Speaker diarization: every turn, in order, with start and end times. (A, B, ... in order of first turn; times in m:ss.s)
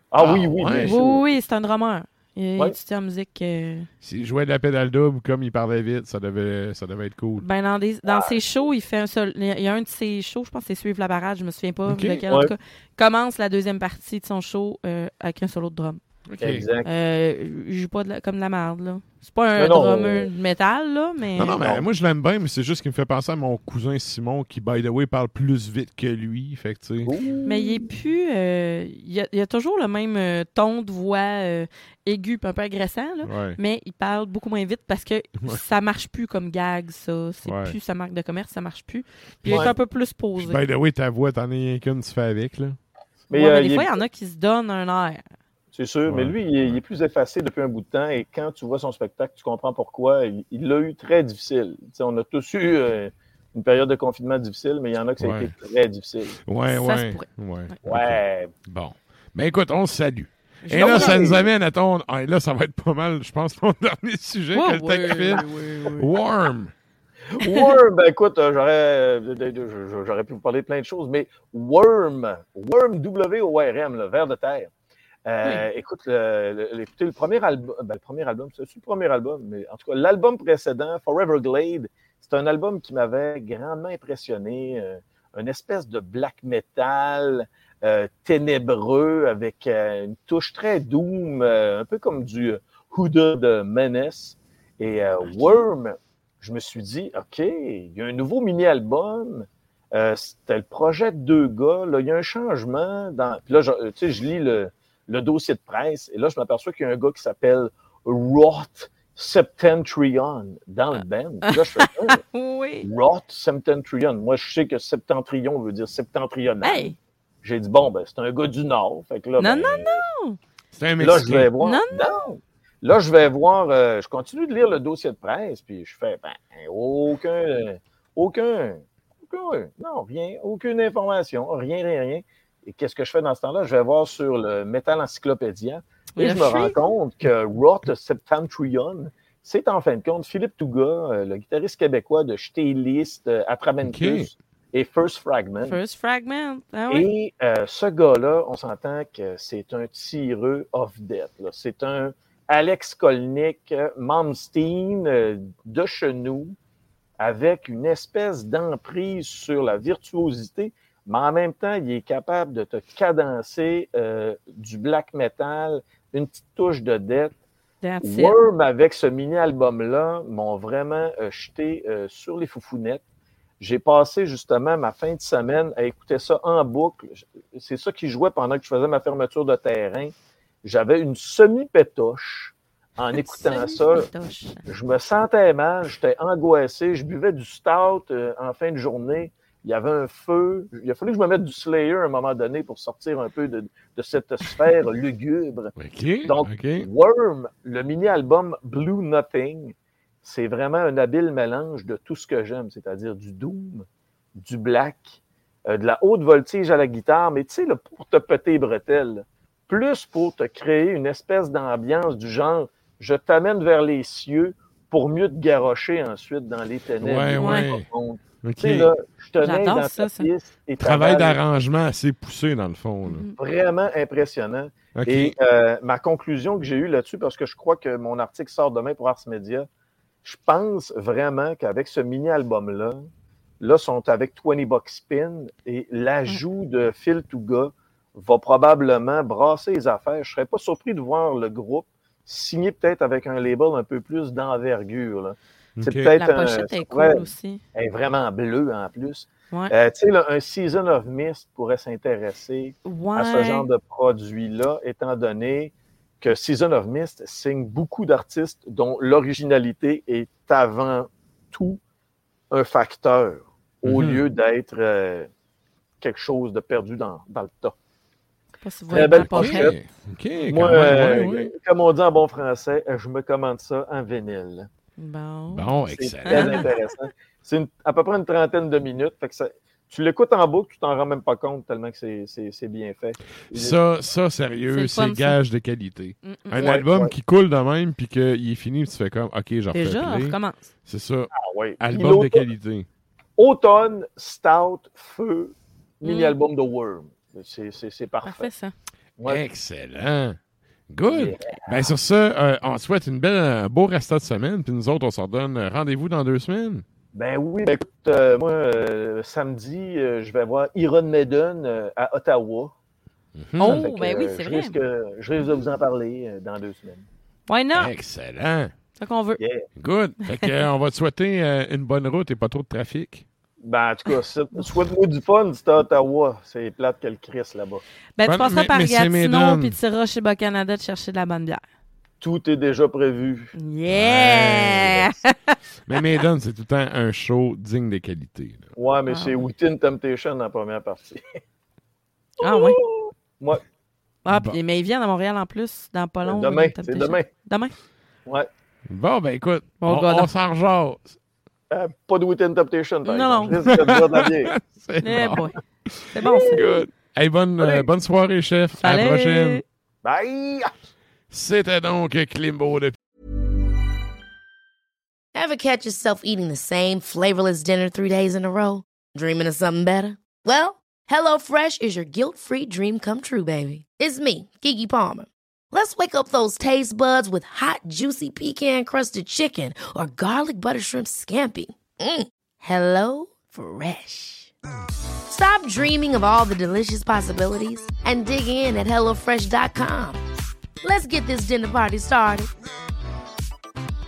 0:00.1-0:01.3 A
0:00.2-0:01.0 B
0:00.8-0:03.9 C
0:04.0-0:07.5 B
0:07.4-0:16.0 C
0:08.1-0:08.4 A
0:11.9-0:12.2 B
0:16.3-0:16.7 B
0:16.4-0:16.9 A
0:16.8-0:21.5 C
0:19.6-0:20.3 A
0:21.4-0:21.8 A
0:21.4-0:27.1 B
0:27.0-0:27.9 A
0:27.4-0:40.6 C
0:33.2-0:33.6 B
0:37.4-0:37.8 B
0:39.4-0:39.8 B
0:39.4-0:39.7 A
0:40.4-0:42.8 B
0:43.3-0:44.0 A
0:43.3-0:45.2 C
0:45.7-0:56.4 A
0:46.0-0:46.8 B
0:55.2-0:55.5 B
0:56.5-1:06.7 B
0:56.7-0:57.8 C
0:57.8-0:58.5 A
1:00.6-1:01.2 C
1:00.8-1:01.5 A
1:04.5-1:06.1 C
1:07.3-1:14.7 A
1:07.4-1:07.7 C
1:15.2-1:52.2 A
1:35.2-1:35.7 C
1:51.5-1:52.9 C
1:52.8-2:00.0 A
1:56.6-1:57.0 C
1:59.4-2:00.4 C
2:00.8-2:01.5 B
2:01.0-2:25.8 A
2:01.6-2:02.2 C
2:16.2-2:16.8 C
2:23.8-2:24.3 B
2:25.6-2:27.1 C
2:26.9-2:36.6 A
2:37.2-2:47.4 A
2:47.8-2:48.4 C
2:48.0-2:53.0 A
2:53.6-3:00.1 A
3:00.6-3:04.1 A
3:03.2-3:04.7 C
3:04.7-3:15.7 A
3:15.8-3:16.9 B
3:16.2-3:23.8 A
3:24.4-3:25.2 A
3:25.7-3:41.4 A
3:37.0-3:37.9 B
3:37.4-3:37.7 C
3:38.4-3:38.9 B
3:39.4-3:40.3 C
3:40.8-3:43.2 B
3:43.1-3:43.4 C
3:43.4-3:49.7 A
3:45.0-3:45.3 B
3:50.2-3:53.0 A
3:53.6-4:21.8 A
4:05.8-4:06.1 B
4:06.2-4:07.6 C
4:12.8-4:13.7 C
4:22.5-4:25.3 A
4:23.8-4:24.2 B
4:26.0-4:27.8 A
4:28.6-4:29.8 C
4:28.9-4:29.8 A
4:29.0-4:31.5 B
4:30.5-4:34.7 A
4:35.0-4:35.7 C
4:35.5-4:36.7 B
4:35.9-4:43.8 A
4:36.3-4:36.6 C
4:43.5-4:52.9 B
4:44.7-4:45.4 C
4:46.2-4:46.8 C
4:46.6-4:47.1 A
4:49.7-4:50.7 C
4:51.3-4:52.5 A
4:53.4-4:58.5 A
4:56.0-4:56.4 C
4:58.2-4:58.7 C
4:59.2-5:00.4 B
5:00.9-5:06.8 B
5:01.1-5:01.9 A
5:07.1-5:12.7 A
5:13.4-5:13.9 B
5:13.6-5:14.8 C
5:13.6-5:17.0 A
5:17.5-5:17.9 C
5:17.8-5:18.7 B
5:19.0-5:19.4 C
5:19.4-5:19.7 A
5:19.8-5:23.2 B
5:20.2-5:20.6 C
5:23.6-5:27.8 A
5:28.2-5:31.6 C
5:28.2-5:29.8 B
5:32.2-5:33.5 A
5:33.6-5:35.6 C
5:33.9-5:35.0 B
5:35.9-5:38.7 B
5:38.8-5:41.3 A
5:39.1-5:39.4 C
5:42.4-5:42.8 C
5:42.4-5:43.6 A
5:44.2-5:47.8 C
5:44.3-5:44.6 B
5:46.2-5:47.3 A
5:48.9-5:51.2 B
5:49.8-5:50.3 C
5:51.7-5:54.5 A
5:53.0-5:53.8 C
5:53.5-5:59.6 B
5:55.0-5:55.6 C
5:56.1-5:56.6 C
5:56.2-5:56.8 A
5:57.6-5:57.9 A
5:58.8-5:59.6 C
6:00.0-6:00.7 A
6:01.3-6:03.0 B
6:05.3-6:24.5 D
6:25.3-6:30.2 D
6:30.8-6:32.5 D